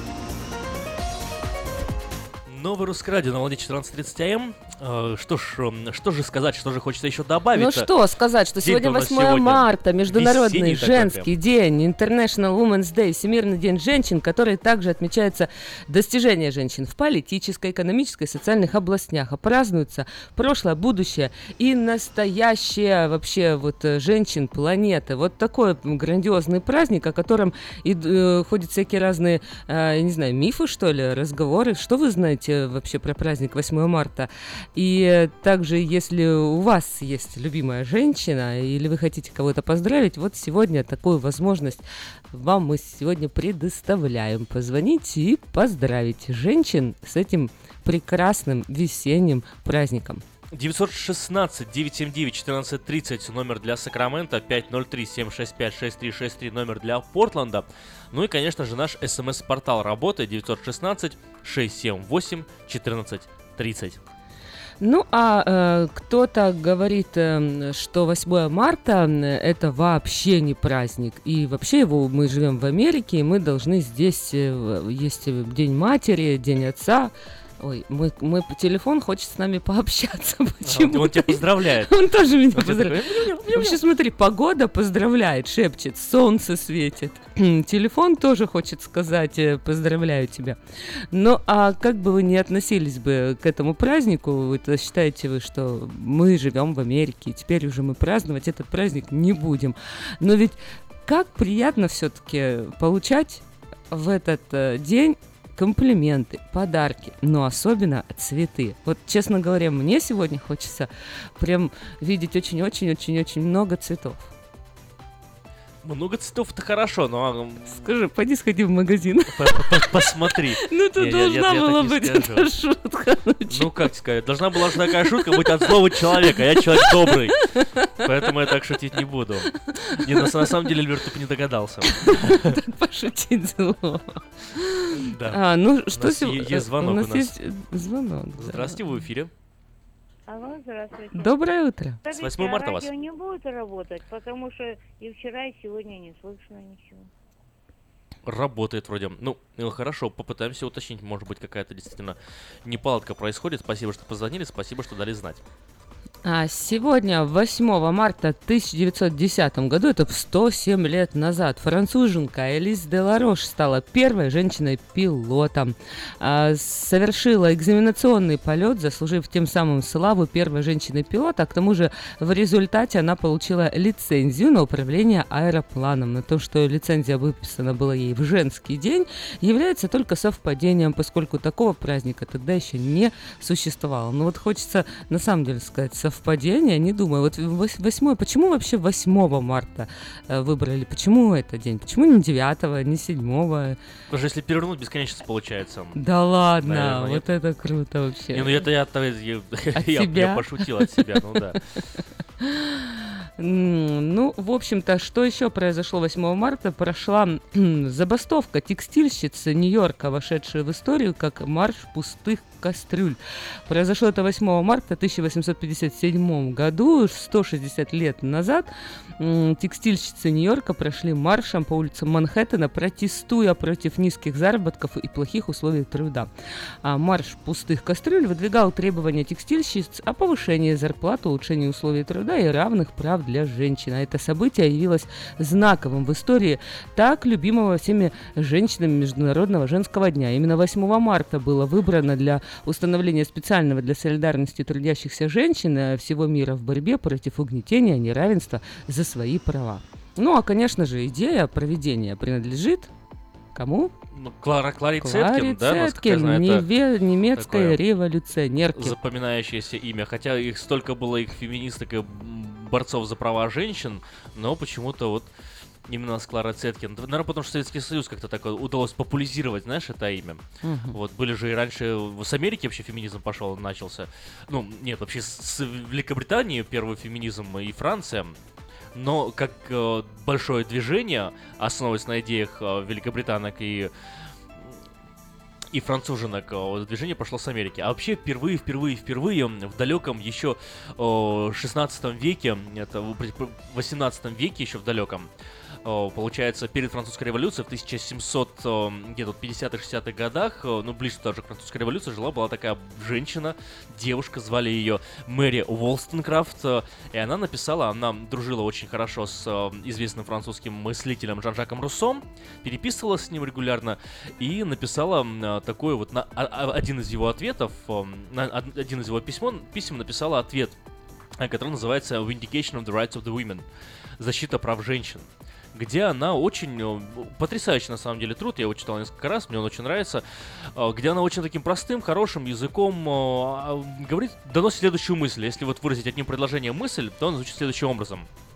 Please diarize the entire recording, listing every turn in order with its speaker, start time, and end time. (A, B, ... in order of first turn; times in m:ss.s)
0:02.5-0:07.9 A
0:07.6-0:41.8 B
0:08.6-0:11.3 A
0:42.3-0:50.2 B
0:50.5-1:04.0 A
1:04.8-1:30.6 B
1:20.6-1:21.9 A
1:22.5-1:23.8 A
1:31.1-1:54.2 B
1:55.8-1:57.8 A
1:57.7-2:03.8 B
1:59.3-2:02.5 A
2:03.5-2:07.4 A
2:04.7-2:07.9 B
2:08.0-2:12.4 A
2:09.8-2:10.4 B
2:12.0-2:19.1 B
2:15.0-2:17.3 A
2:18.4-2:19.3 A
2:20.3-2:27.1 C
2:21.1-2:22.0 B
2:22.1-2:22.9 A
2:28.3-2:35.4 A
2:36.2-3:13.8 B
3:14.1-3:16.0 A
3:16.0-3:18.7 B
3:16.6-3:17.2 A
3:18.3-3:21.6 A
3:19.8-3:21.2 B
3:22.5-3:22.8 B
3:23.4-3:46.3 B
3:46.8-4:12.9 B
4:13.6-4:13.9 B
4:14.1-4:16.6 A
4:15.0-4:19.0 B
4:17.4-4:17.8 A
4:18.8-4:25.3 A
4:25.9-4:38.4 A
4:30.6-4:31.0 B
4:39.0-4:43.9 A
4:45.7-4:55.3 A
4:55.8-5:20.8 A
5:21.4-5:23.6 A
5:24.2-5:30.2 A
5:30.8-5:38.3 A